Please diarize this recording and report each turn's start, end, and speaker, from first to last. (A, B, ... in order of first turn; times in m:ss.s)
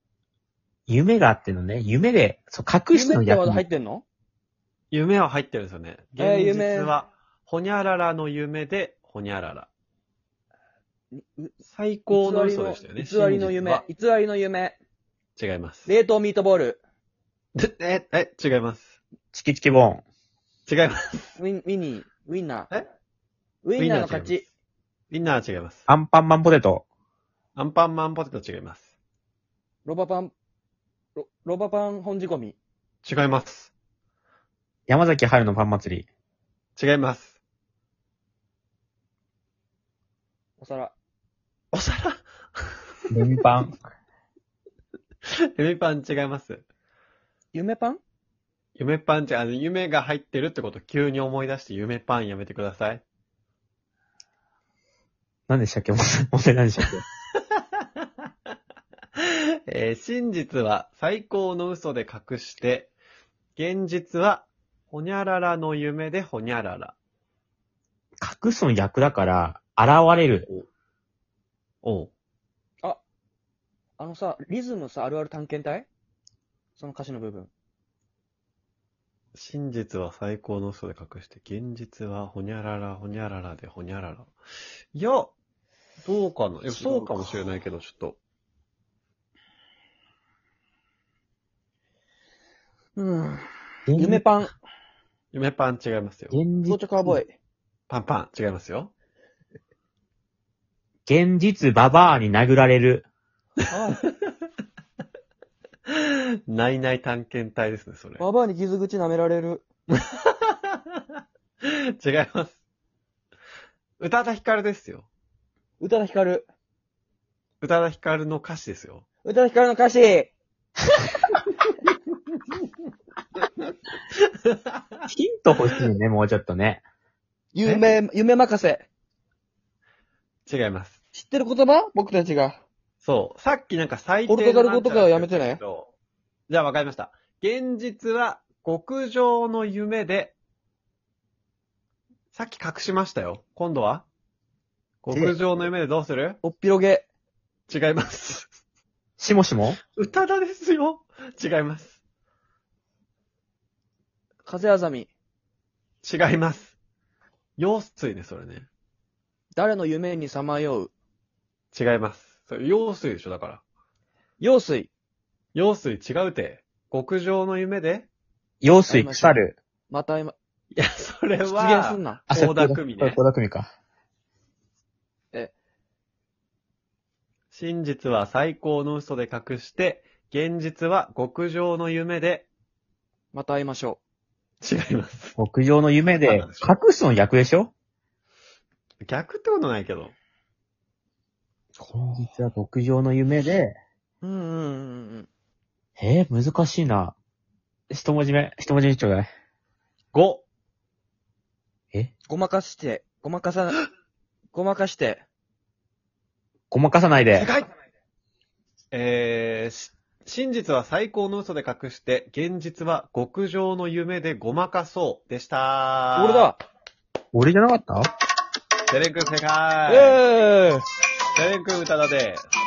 0:00.9-0:03.6 A
0:02.9-0:04.0 B
0:04.9-0:09.7 C
0:06.2-0:07.0 B
0:11.1-0:11.6 B
0:11.6-0:13.8 C
0:12.1-0:14.8 B
0:15.4-0:15.9 C
0:15.9-0:16.8 B
0:17.6-0:19.0 C
0:19.3-0:20.0 A
0:20.7-0:21.4 C
0:21.4-0:22.7 B
0:23.6-0:24.5 B
0:23.8-0:24.4 C
0:25.1-0:25.9 C
0:25.9-0:26.8 A
0:27.6-0:28.9 C
0:29.8-0:30.3 B
0:31.2-0:32.6 B
0:33.0-0:33.7 C
0:34.9-0:36.1 A
0:36.8-0:37.4 C
0:40.6-0:40.9 B
0:41.7-0:42.2 C
0:43.1-0:43.8 A
0:45.6-0:46.6 C
0:47.5-0:48.0 B
0:48.8-0:53.0 C
0:55.5-0:57.0 A
0:59.7-1:02.9 C
1:03.6-1:07.0 C
1:08.2-1:10.5 A
1:11.8-1:12.1 C
1:14.0-1:15.9 B
1:16.8-1:17.5 B
1:19.4-1:24.3 C
1:24.9-1:25.3 C
1:26.0-1:28.2 C
1:26.7-1:27.4 B
1:33.0-1:34.5 B
1:33.9-1:34.3 A
1:35.3-1:36.4 C
1:36.3-1:37.2 A
1:36.6-1:37.3 B
1:37.9-1:38.9 C
1:41.1-1:43.0 A
1:43.7-1:44.0 B
1:45.9-1:48.2 C
1:48.2-1:49.6 B
1:49.9-1:51.0 C
1:51.6-1:52.6 C
1:54.0-1:55.1 C
1:55.8-1:56.5 B
1:57.6-1:59.0 C
1:59.2-2:00.3 B
2:05.1-2:06.8 A
2:07.5-2:08.9 B
2:07.6-2:08.0 C
2:10.5-2:11.0 C
2:11.1-2:12.6 B
2:13.0-2:15.9 C
2:14.3-2:15.6 B
2:16.5-2:20.4 C
2:22.3-2:24.1 C
2:25.0-2:26.4 C
2:25.1-2:25.4 A
2:26.4-2:27.1 B
2:27.7-2:28.5 C
2:29.2-2:29.8 A
2:29.9-2:32.0 C
2:34.5-2:35.1 B
2:36.0-2:36.8 C
2:37.6-2:38.7 C
2:39.6-2:40.9 B
2:41.7-2:43.6 C
2:44.4-2:44.9 B
2:45.5-2:48.1 C
2:48.6-2:49.6 A
2:48.9-2:50.4 B
2:50.7-2:53.2 C
2:51.4-2:52.2 B
2:52.3-2:53.7 A
2:57.5-3:02.5 C
3:03.3-3:04.0 B
3:04.6-3:05.4 C
3:05.4-3:07.7 A
3:06.2-3:06.8 C
3:09.0-3:10.1 C
3:11.8-3:13.8 A
3:14.2-3:15.3 B
3:16.0-3:17.2 A
3:17.9-3:19.3 A
3:20.1-3:20.4 C
3:22.3-3:23.8 B
3:24.5-3:25.2 B
3:26.7-3:27.5 A
3:27.3-3:27.7 C
3:28.9-3:36.5 C
3:36.2-3:36.6 B
3:37.3-3:38.1 A
3:38.9-3:40.2 C
3:39.9-3:40.8 B
3:41.4-3:42.5 C